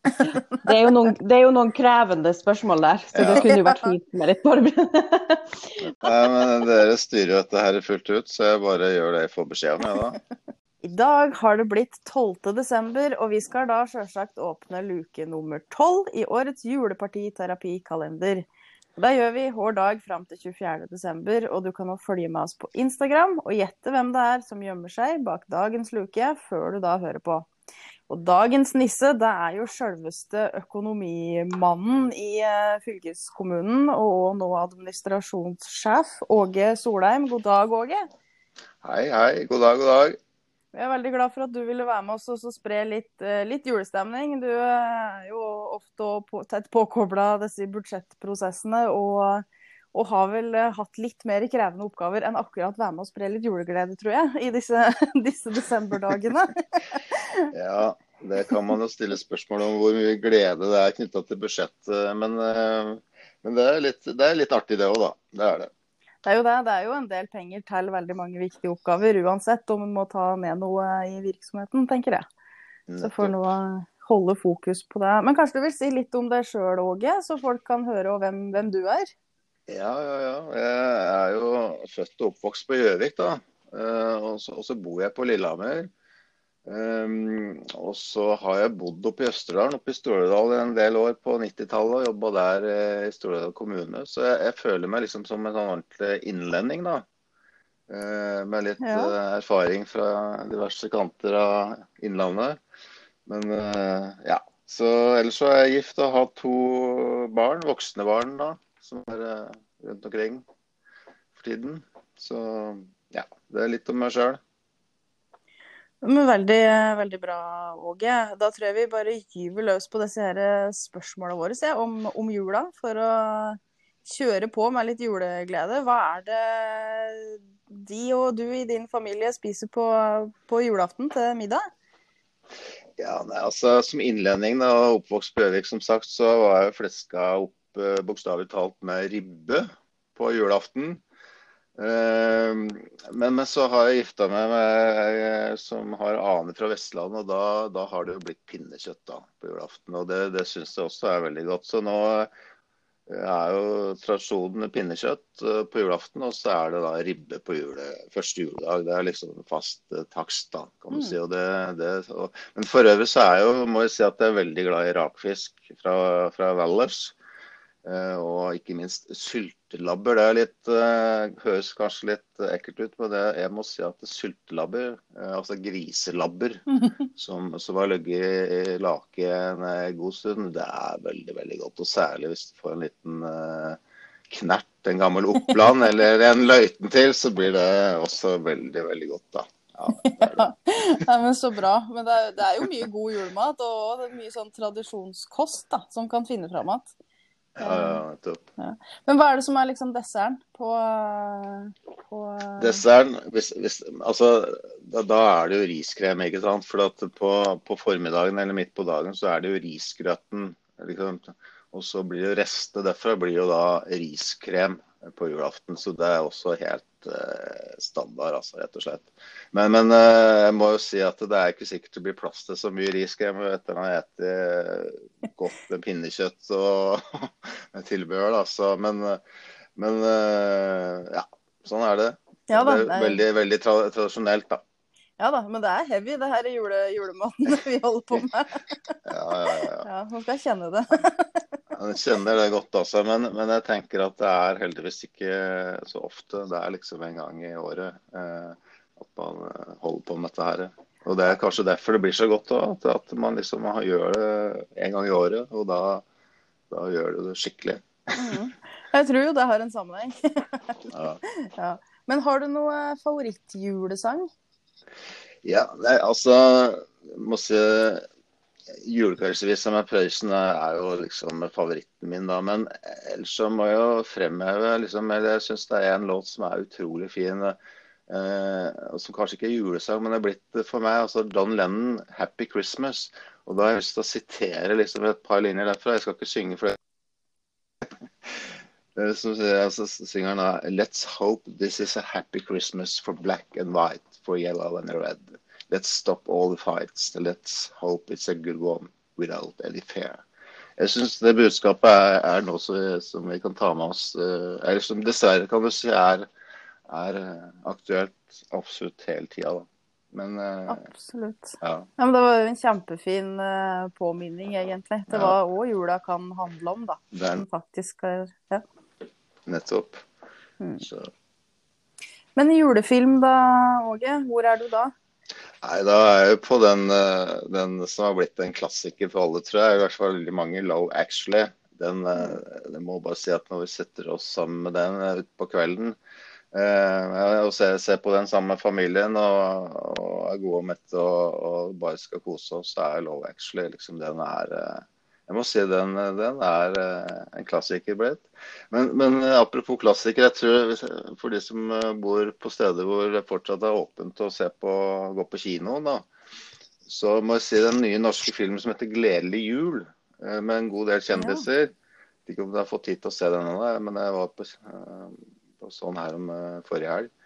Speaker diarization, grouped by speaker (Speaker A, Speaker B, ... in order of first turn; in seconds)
Speaker A: 0.1-1.1, 3.2-3.8, 10.8-27.5, 28.1-38.0, 40.7-57.5, 66.2-72.2, 73.0-79.1, 98.8-99.1, 116.0-131.6, 160.9-161.2, 190.0-196.9, 197.6-198.0, 198.6-202.8, 232.5-233.2, 235.2-239.0, 239.6-241.6, 258.1-264.3, 310.7-318.6, 320.6-320.9, 322.3-324.9, 361.1-361.4
Speaker B: 0.3-6.2
Speaker C: 3.1-3.4, 6.0-10.2, 38.8-40.2, 57.5-65.7, 72.9-73.4, 79.7-85.9, 86.7-97.0, 97.9-102.6, 103.2-110.4, 111.3-114.4, 133.0-141.0, 141.8-152.3, 153.1-167.1, 167.8-190.5, 197.6-198.4, 202.6-229.2, 229.8-234.6, 239.1-239.9, 241.7-256.0, 256.7-258.1, 260.9-261.2, 265.4-268.0, 268.8-277.6, 278.1-286.8, 288.3-300.2, 300.8-306.3, 306.9-310.8, 311.6-311.9, 315.1-315.4, 317.1-317.4, 319.4-320.0, 320.8-321.1, 325.6-336.0, 336.5-356.1, 356.9-361.7, 362.2-367.1